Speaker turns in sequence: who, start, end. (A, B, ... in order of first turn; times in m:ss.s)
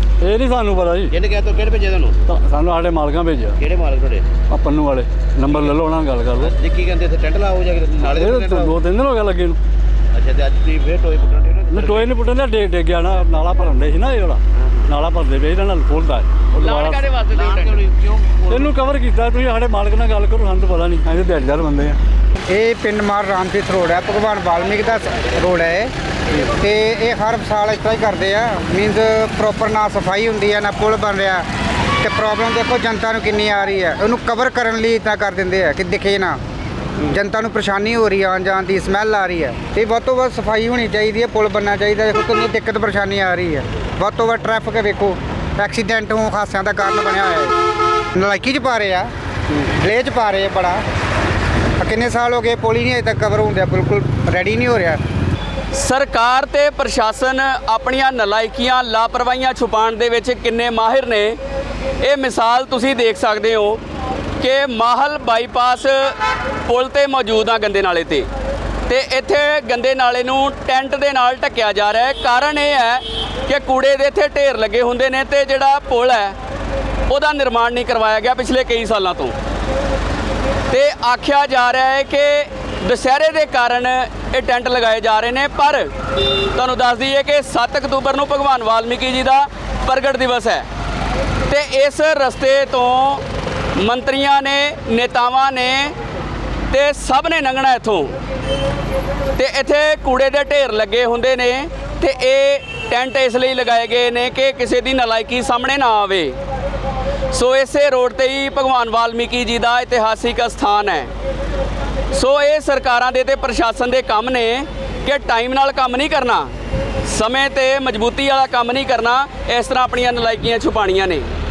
0:00.2-0:01.2 A
0:01.1-0:02.2 B
0:02.3-0:03.6 A
0:03.6-0:04.3 B
0:04.5-0:06.5 A
0:06.4-0:08.8 B
0:08.1-0:09.6 A
0:10.1-0:12.1 B
0:11.7-0:17.0 A
0:16.6-0:17.8 C
0:17.1-0:18.7 B
0:18.5-0:22.0 A
0:22.5-0:25.9 D
0:26.5-0:31.4 D
0:32.0-0:36.4 D
0:37.0-0:47.6 D
0:48.2-0:50.8 D
0:51.8-0:55.0 D
0:55.7-1:01.4 C
1:02.0-1:03.8 C
1:04.4-1:06.2 C
1:06.7-1:08.3 C
1:08.9-1:16.4 C
1:17.1-1:19.4 C
1:20.7-1:25.9 C
1:26.5-1:30.7 C
1:31.5-1:33.2 C
1:33.8-1:36.0 C
1:36.7-1:38.2 C
1:39.4-1:46.4 C
1:47.3-1:51.1 C
1:52.1-1:56.5 C
1:57.1-2:01.3 C